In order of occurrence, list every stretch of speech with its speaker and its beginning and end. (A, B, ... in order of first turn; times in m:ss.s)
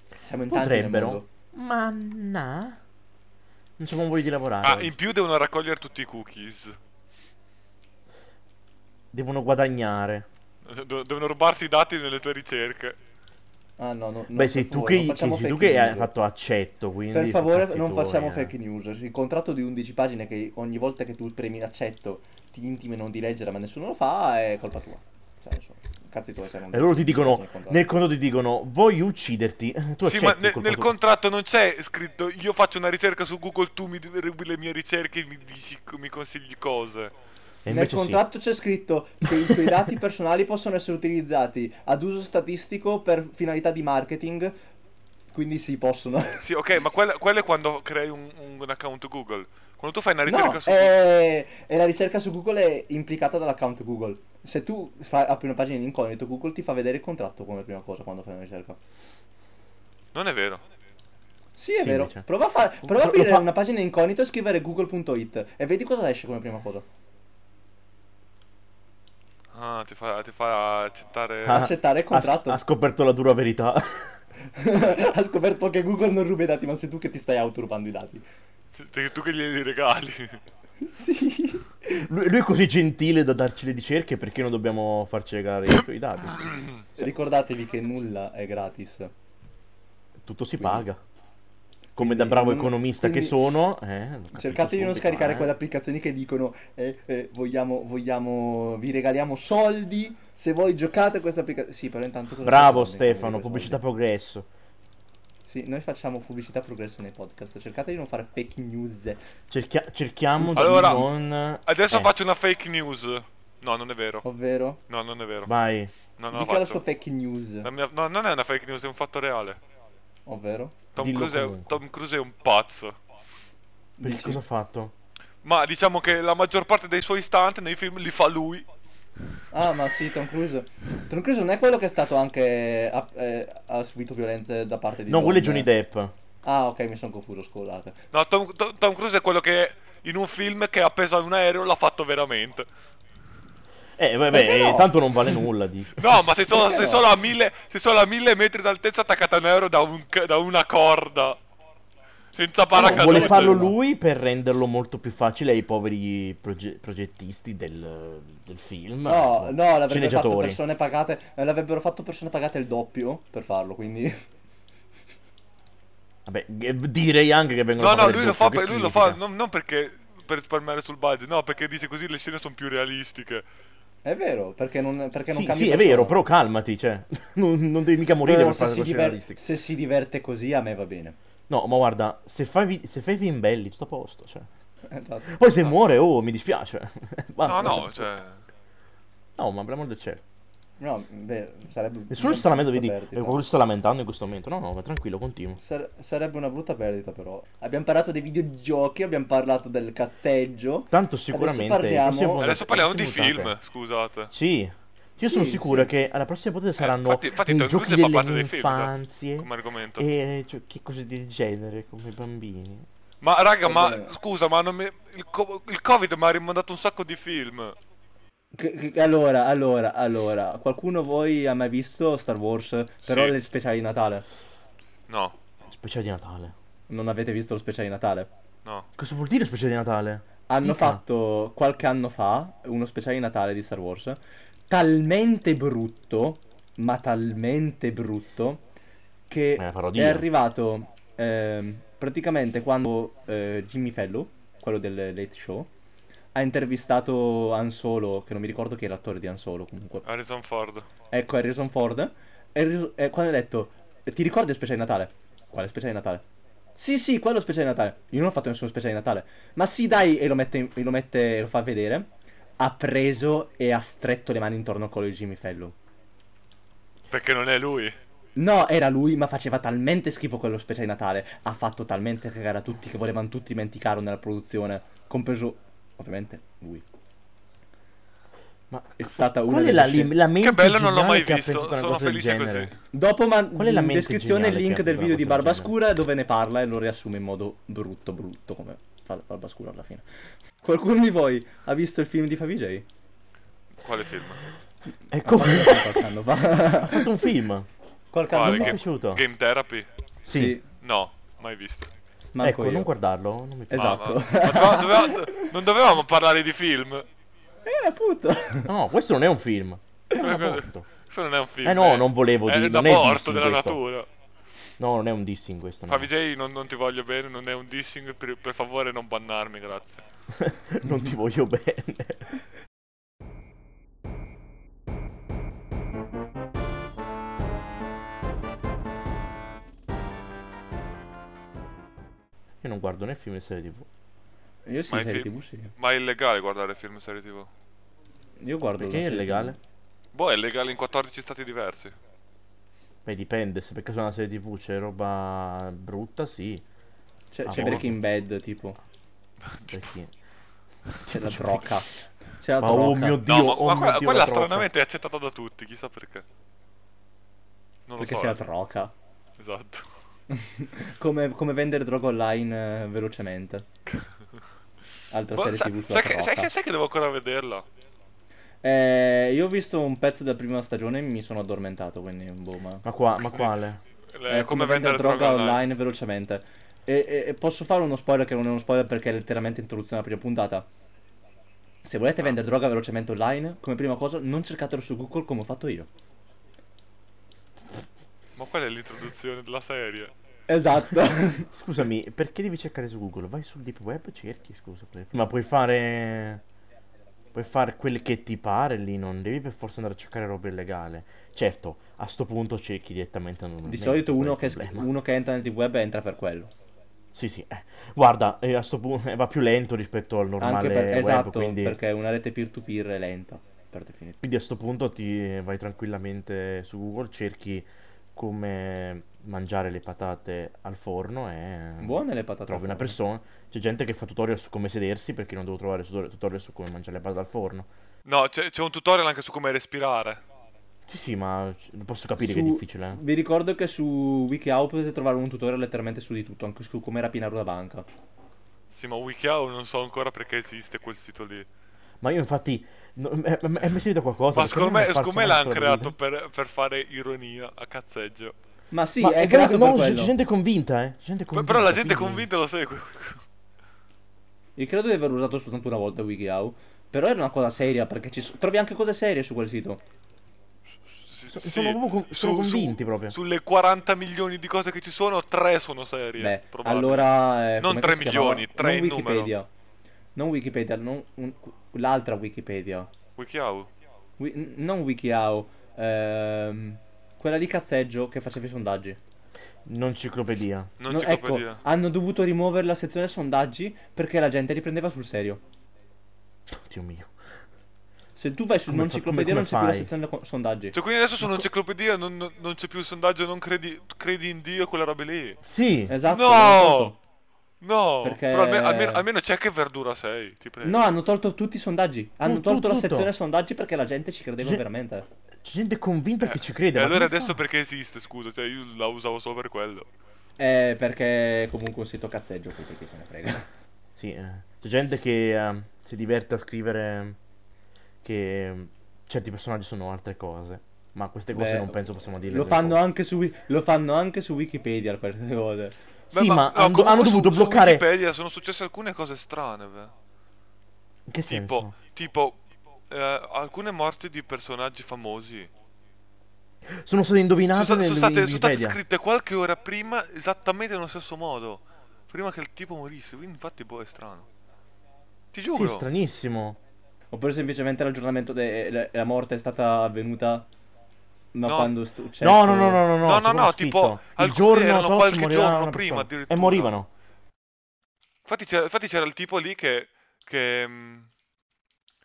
0:00.2-0:01.3 A
0:00.5-0:02.8 B
0:03.8-0:05.0 B
0:04.6-0:06.8 C
0:09.1-0:10.3 B
0:10.6-0:13.0 C
0:13.8-0:16.1 A
0:14.3-0:18.5 B
0:17.1-0:27.9 A
0:26.7-0:30.9 B
0:30.0-0:37.1 C
0:37.6-0:38.2 B
0:37.7-0:44.6 A
0:39.3-0:39.8 B
0:45.3-0:46.4 A
0:46.4-0:51.0 C
0:50.3-0:58.8 A
1:00.1-1:00.6 C
1:01.6-1:06.9 A
1:01.8-1:02.3 B
1:02.8-1:03.5 B
1:09.5-1:11.7 C
1:11.4-1:14.1 B
1:11.5-1:12.6 A
1:14.5-1:18.2 A
1:18.8-1:20.4 C
1:20.8-1:22.1 A
1:21.9-1:26.7 B
1:27.0-1:29.1 A
1:30.2-1:31.0 B
1:30.6-1:30.8 A
1:32.0-1:35.5 B
1:32.0-1:33.4 A
1:34.4-1:43.8 A
1:42.4-1:44.5 B
1:45.5-1:49.2 A
1:49.5-1:52.1 B
1:50.4-1:50.8 A
1:50.6-1:51.1 C
1:51.6-1:54.2 C
1:54.2-1:54.8 A
1:54.9-1:55.5 C
1:55.5-1:56.0 B
1:56.2-1:56.8 C
1:56.3-1:57.7 A
1:57.6-1:59.6 C
2:00.3-2:00.8 A
2:01.0-2:03.0 C
2:01.0-2:01.8 B
2:04.0-2:04.4 A
2:04.0-2:04.9 B
2:05.4-2:08.6 C
2:09.5-2:15.7 A
2:15.1-2:16.1 B
2:16.4-2:18.0 A
2:18.1-2:22.7 C
2:24.0-2:26.4 B
2:24.3-2:25.3 A
2:26.0-2:31.4 C
2:26.4-2:27.1 A
2:32.3-2:33.6 C
2:32.7-2:40.6 B
2:32.8-2:33.7 A
2:39.0-2:44.2 A
2:46.3-2:49.2 B
2:47.8-2:53.4 C
2:54.0-2:56.2 A
2:55.3-2:59.4 B
2:58.2-3:01.2 A
3:01.5-3:04.5 B
3:04.9-3:05.8 A
3:05.3-3:08.1 B
3:07.4-3:08.4 C
3:09.4-3:10.2 B
3:10.8-3:13.5 A
3:12.1-3:15.6 B
3:15.6-3:22.5 A
3:20.9-3:23.5 B
3:22.4-3:24.3 C
3:24.3-3:32.9 B
3:25.2-3:25.9 A
3:26.8-3:30.1 C
3:33.2-3:37.8 C
3:33.6-3:34.1 A
3:38.5-3:44.2 A
3:43.1-3:43.3 C
3:45.1-3:45.3 C
3:45.7-3:46.5 B
3:46.9-3:48.3 A
3:49.0-3:51.0 B
3:50.5-3:58.6 A
3:59.3-4:05.7 A
3:59.6-4:00.3 B
4:06.4-4:10.0 A
4:10.0-4:10.9 C
4:11.1-4:16.2 A
4:16.8-4:22.1 A
4:22.6-4:25.8 A
4:27.1-4:28.0 C
4:28.4-4:36.8 A
4:38.7-4:42.8 B
4:39.0-4:40.1 A
4:40.4-4:42.7 C
4:42.9-4:50.0 A
4:43.6-4:45.7 B
4:50.6-4:52.9 A
4:53.8-4:54.5 C
4:55.1-4:56.1 B
4:55.2-4:57.1 A
4:56.8-4:57.7 B
4:58.1-4:58.8 A
4:58.3-4:59.9 C
4:58.4-4:59.2 B
5:00.2-5:00.6 B
5:00.3-5:00.6 A
5:00.8-5:01.9 C
5:02.4-5:02.9 A
5:02.4-5:04.2 B
5:03.7-5:05.5 A
5:03.8-5:07.1 C
5:07.6-5:08.7 A
5:08.7-5:10.9 B
5:10.2-5:14.1 C
5:11.6-5:13.8 B
5:14.8-5:16.1 B
5:15.9-5:20.0 C
5:20.3-5:22.2 B
5:32.6-5:33.9 B
5:34.6-5:35.7 A
5:34.9-5:37.5 C
5:38.4-5:39.6 A
5:38.8-5:39.6 B
5:40.1-5:41.9 C
5:43.0-5:46.6 B
5:47.3-5:48.8 A
5:47.4-5:48.0 B
5:49.5-5:49.8 C
5:49.7-5:50.1 B
5:51.0-5:51.8 B
5:51.1-5:53.2 A
5:52.6-5:54.7 B
5:53.3-5:56.2 C
5:57.9-5:58.4 C
5:58.0-5:58.9 A
5:59.4-5:59.9 C
6:00.3-6:03.6 A
6:05.1-6:06.5 A
6:05.4-6:07.6 C
6:08.6-6:12.8 A
6:12.8-6:13.8 B
6:14.1-6:15.6 C
6:14.3-6:20.7 A
6:21.8-6:25.9 A
6:28.4-6:30.1 C
6:30.5-6:31.5 A
6:31.5-6:36.4 B
6:37.3-6:44.9 B
6:43.6-6:46.5 A
6:47.1-6:51.8 B
6:50.4-6:54.2 A
6:54.2-7:07.7 B
7:01.8-7:03.0 A
7:08.0-7:10.2 C
7:10.9-7:13.0 B
7:12.2-7:17.9 A
7:18.7-7:21.5 C
7:22.0-7:26.0 B
7:24.4-7:28.4 C
7:28.7-7:30.1 A
7:29.0-7:32.3 B
7:31.3-7:33.2 C
7:34.6-7:39.8 A
7:40.9-7:49.3 C
7:41.3-7:43.2 B
7:46.2-7:49.5 A
7:50.2-7:52.9 A
7:53.2-7:53.7 C
7:54.2-7:59.0 A
7:59.6-8:00.7 B
8:00.8-8:01.6 C
8:00.9-8:05.4 A
8:06.5-8:07.1 B
8:08.2-8:10.8 A
8:08.7-8:09.9 B
8:10.7-8:15.4 C
8:15.4-8:16.0 B
8:15.9-8:17.0 A
8:16.1-8:17.0 C
8:17.6-8:20.8 C
8:18.0-8:19.0 A
8:20.6-8:25.1 A
8:22.2-8:23.1 B
8:25.4-8:27.4 B
8:26.2-8:29.9 C
8:30.4-8:33.5 A
8:34.0-8:37.2 B
8:38.0-8:42.8 B
8:41.3-8:41.8 A
8:42.3-8:45.8 A
8:46.1-8:47.8 B
8:46.1-8:49.9 C
8:51.1-8:51.7 B
8:51.3-8:52.4 C
8:52.9-8:55.5 C
8:56.7-8:58.8 B
8:57.5-9:04.3 C
9:05.3-9:05.9 C
9:05.5-9:06.6 B
9:07.1-9:10.5 A
9:11.3-9:12.8 A
9:11.5-9:11.7 C
9:12.2-9:16.9 B
9:13.0-9:16.8 C
9:18.3-9:21.1 C